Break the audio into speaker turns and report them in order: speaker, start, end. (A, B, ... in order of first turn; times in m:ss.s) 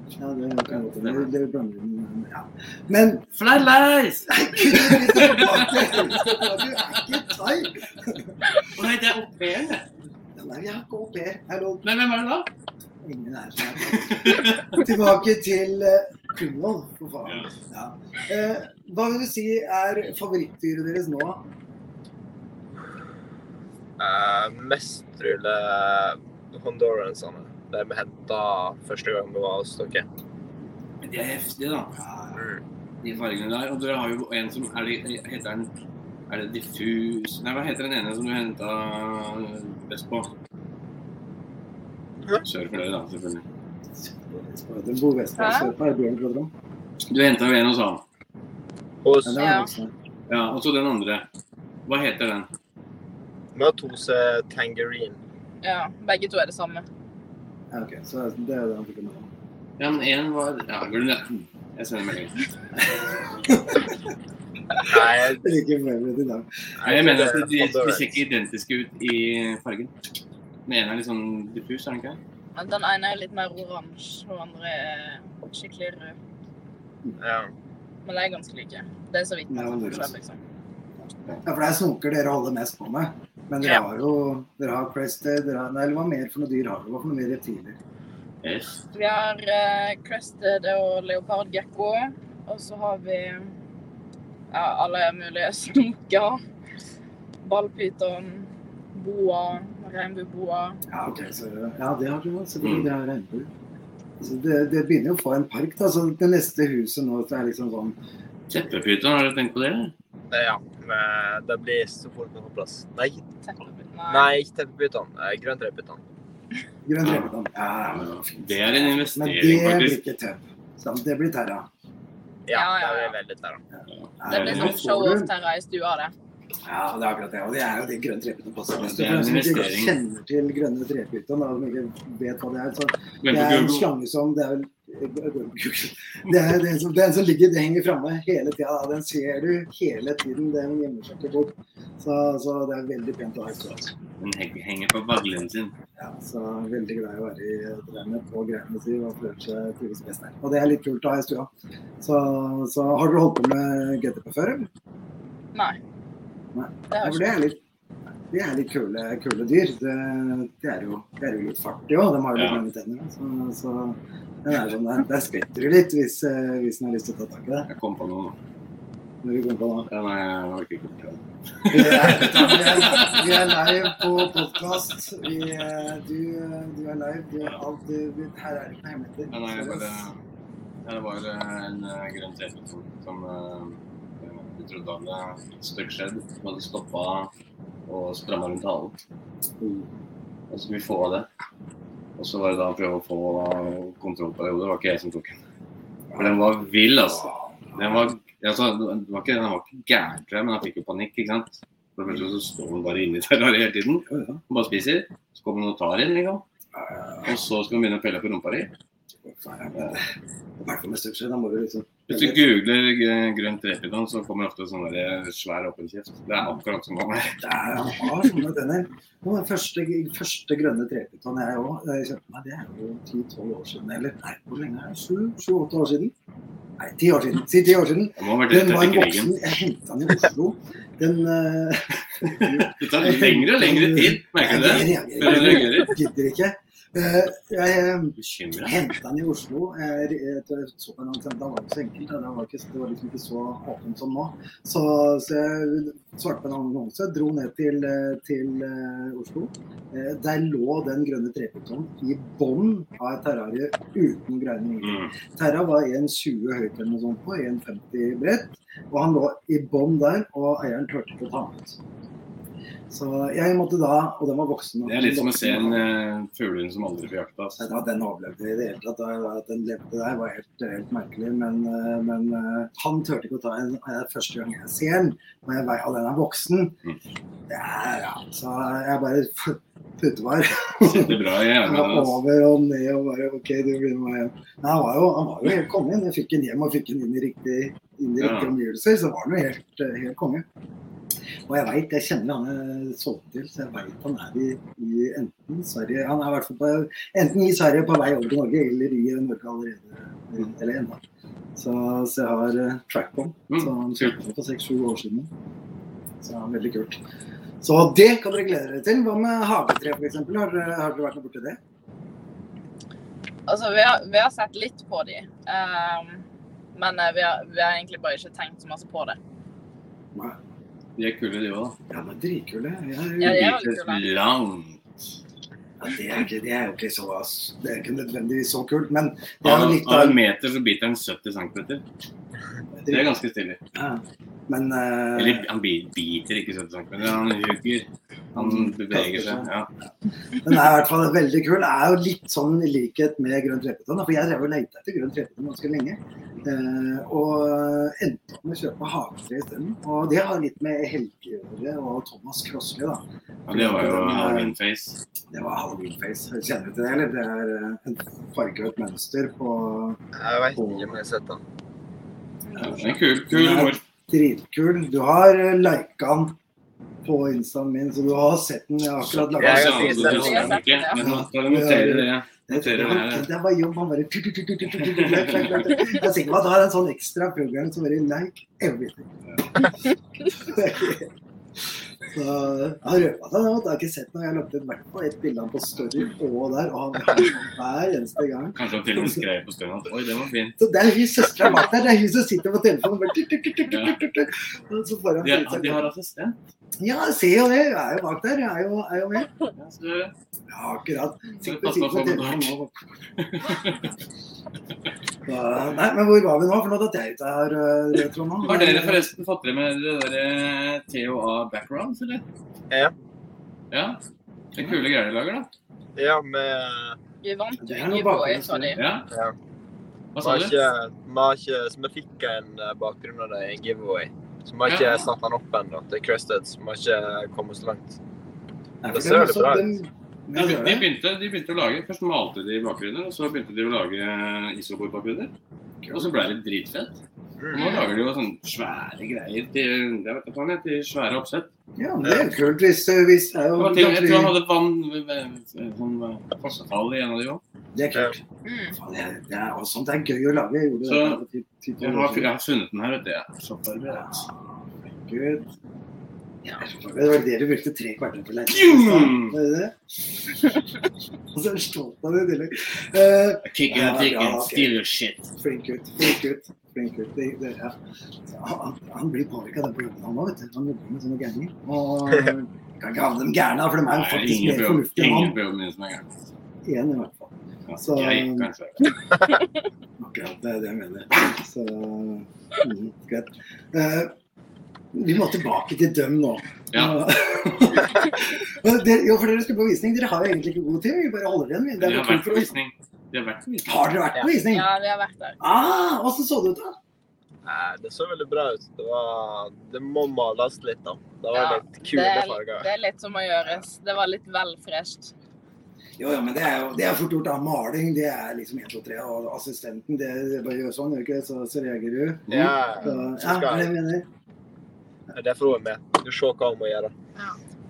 0:00.2-0:03.3 A
0:00.7-0:01.3 B
0:03.3-0:06.8 B
0:04.3-0:08.4 A
0:08.7-0:09.9 B
0:10.4-0:11.8 A
0:11.8-0:12.5 B
0:13.0-0:21.4 A
0:13.7-0:14.9 B
0:17.2-0:17.5 B
0:24.0-0:30.0 C
0:31.0-0:32.1 B
0:32.3-0:32.6 C
0:33.0-0:35.7 B
0:36.3-0:40.3 B
0:42.4-0:43.4 B
0:44.0-0:46.5 A
0:45.4-0:45.7 D
0:47.1-0:48.0 B
0:49.0-0:49.4 C
0:49.2-0:49.9 A
0:49.4-0:49.7 D
0:50.3-0:51.3 B
0:51.8-0:52.5 B
0:53.5-0:55.2 C
0:55.6-0:56.8 D
0:57.7-0:59.3 A
0:59.8-1:02.4 B
1:02.8-1:04.0 A
1:04.8-1:05.4 C
1:05.4-1:06.5 A
1:06.8-1:08.2 C
1:06.8-1:09.9 B
1:10.6-1:12.2 B
1:12.5-1:16.2 D
1:17.2-1:17.5 C
1:18.0-1:20.4 D
1:19.5-1:20.2 A
1:21.4-1:27.8 A
1:28.4-1:28.8 B
1:28.9-1:33.5 D
1:34.5-1:36.4 D
1:37.4-1:40.8 D
1:40.9-1:43.5 A
1:42.6-1:42.9 B
1:44.2-1:48.0 A
1:48.5-1:49.9 B
1:50.3-1:53.2 C
1:53.4-1:54.3 D
1:54.1-1:56.0 C
1:56.8-2:01.7 A
1:57.0-1:57.3 B
1:57.9-2:00.0 B
2:02.4-2:03.6 C
2:02.5-2:03.1 D
2:03.7-2:05.3 A
2:03.9-2:04.8 B
2:04.3-2:06.1 D
2:06.6-2:23.9 A
2:08.8-2:10.0 B
2:13.2-2:13.9 B
2:24.2-2:25.7 B
2:26.0-2:31.5 A
2:32.0-2:34.7 A
2:35.5-2:35.8 D
2:36.5-2:37.6 A
2:36.9-2:37.3 D
2:38.3-2:47.7 A
2:42.3-2:42.6 B
2:47.7-2:48.4 B
2:49.2-2:49.9 A
2:49.9-2:54.8 B
2:51.7-3:00.1 A
2:59.3-3:00.2 B
3:00.8-3:07.3 B
3:07.9-3:09.0 B
3:09.6-3:09.9 A
3:10.5-3:11.3 B
3:12.2-3:15.4 B
3:16.1-3:16.4 A
3:16.2-3:26.4 B
3:17.0-3:18.1 A
3:24.0-3:24.4 A
3:26.7-3:27.4 A
3:27.2-3:28.7 B
3:29.2-3:32.4 A
3:32.1-3:37.4 B
3:37.4-3:46.1 A
3:46.8-4:21.8 A
3:48.2-3:49.3 B
3:52.3-3:56.0 B
3:58.2-3:58.8 B
4:14.8-4:15.1 B
4:22.9-4:25.9 A
4:24.8-4:27.6 B
4:27.6-4:36.8 A
4:37.5-4:50.4 A
4:40.8-4:42.2 B
4:48.2-4:48.5 B
4:51.5-5:01.0 A
5:01.6-5:05.3 A
5:03.5-5:04.1 B
5:06.2-5:07.0 A
5:07.6-5:11.6 A
5:13.5-5:19.2 D
5:21.0-5:21.8 B
5:21.9-5:23.7 A
5:23.2-5:24.1 D
5:23.2-5:24.8 B
5:25.8-5:30.2 A
5:29.4-5:31.8 B
5:32.7-5:33.1 A
5:32.9-5:33.6 B
5:33.7-5:35.5 A
5:35.1-5:39.7 B
5:38.3-5:54.5 A
5:53.5-5:55.0 B
5:55.3-6:00.0 A
6:00.1-6:01.4 C
6:00.5-6:01.0 A
6:02.5-6:02.8 D
6:02.5-6:03.8 B
6:03.3-6:06.4 A
6:07.0-6:19.7 A
6:09.0-6:13.3 B
6:09.4-6:10.6 C
6:09.9-6:11.0 D
6:14.7-6:15.8 B
6:20.2-6:21.1 A
6:22.1-6:29.2 A
6:28.6-6:30.6 B
6:30.6-6:35.9 A
6:33.7-6:34.0 B
6:35.2-6:36.4 B
6:36.8-6:39.3 A
6:39.5-6:40.1 B
6:40.5-6:42.8 A
6:41.4-6:42.6 B
6:43.2-6:43.9 B
6:45.2-6:49.0 A
6:48.4-6:52.2 B
6:53.7-6:54.0 B
6:54.5-6:55.5 B
6:56.0-6:57.0 C
6:57.2-6:58.8 D
6:57.6-6:58.8 A
6:58.8-6:59.1 B
6:59.1-6:59.3 C
7:00.1-7:00.5 B
7:00.2-7:08.0 C
7:04.6-7:05.1 B
7:08.8-7:10.9 A
7:08.9-7:09.7 C
7:10.3-7:15.3 B
7:15.8-7:16.2 A
7:15.9-7:17.0 B
7:17.4-7:17.8 C
7:17.5-7:21.5 B
7:21.8-7:24.3 A
7:23.6-7:27.4 B
7:27.7-7:32.3 A
7:28.4-7:28.8 D
7:30.8-7:31.2 B
7:31.8-7:34.3 B
7:33.9-7:35.5 A
7:36.4-7:39.8 A
7:38.5-7:39.4 B
7:41.3-7:44.7 A
7:43.4-7:45.3 B
7:45.4-7:55.4 A
7:53.9-7:56.3 B
7:56.6-7:58.5 A
7:57.7-7:58.9 B
8:00.0-8:04.1 A
8:04.9-8:12.5 A
8:06.7-8:07.0 B
8:11.8-8:13.9 B
8:13.6-8:14.7 A
8:14.5-8:15.4 D
8:15.4-8:16.8 A
8:17.4-8:22.7 C
8:21.3-8:25.1 D
8:26.0-8:34.1 A
8:32.3-8:32.6 B
8:32.3-8:33.7 C
8:35.1-8:36.9 C